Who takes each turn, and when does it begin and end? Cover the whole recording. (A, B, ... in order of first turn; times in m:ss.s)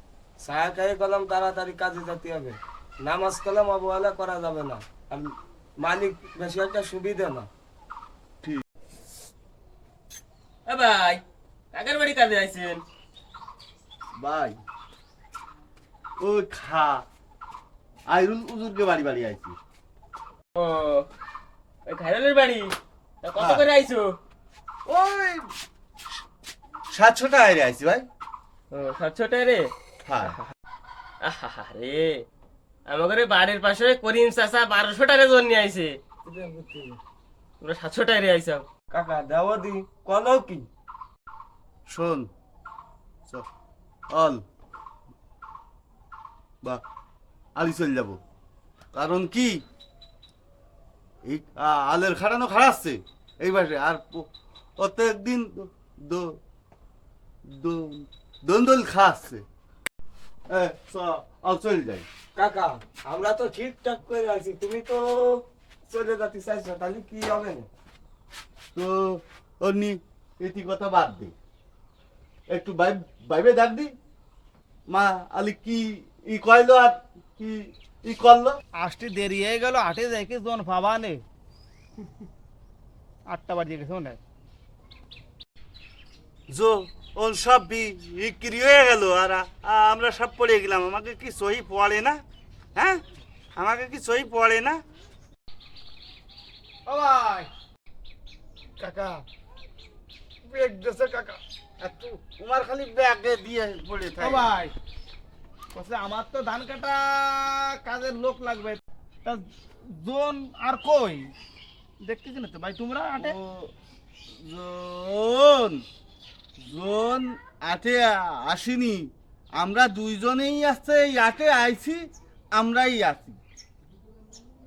0:00.4-0:07.5 A
0:10.6-0:12.8 B
0:14.2-0:14.6 C
0:16.2-0:17.0 C
0:18.1-0:19.6 C
0:20.6-0:21.0 B
0:21.8-0:24.1 B
0:23.4-0:23.6 C
0:24.8-0:25.5 C
0:26.9-0:28.0 C
0:28.7-0:29.7 B
0:30.0-0:30.4 C
0:31.2-0:32.2 B
0:32.9-0:36.0 B
0:36.2-0:37.0 A
0:37.6-0:38.8 B
0:38.9-0:40.7 A
0:41.9-0:42.3 C
0:44.1-0:44.4 C
0:47.6-0:48.2 C
0:48.9-0:49.6 C
0:51.2-0:54.3 C
0:54.8-0:56.3 C
0:57.5-0:59.4 C
1:00.5-1:02.0 C
1:02.4-1:07.7 A
1:08.7-1:11.3 C
1:12.5-1:13.9 C
1:14.9-1:18.6 C
1:18.8-1:21.2 D
1:23.3-1:24.2 D
1:26.5-1:32.2 C
1:33.6-1:34.8 C
1:36.9-1:37.5 D
1:38.8-1:39.2 D
1:40.5-1:41.4 D
1:41.8-1:44.5 C
1:44.2-1:44.7 D
1:45.7-1:51.3 D
1:52.0-1:53.3 D
1:53.2-1:53.7 C
1:54.4-1:55.8 C
1:56.6-2:02.0 C
2:02.6-2:03.4 C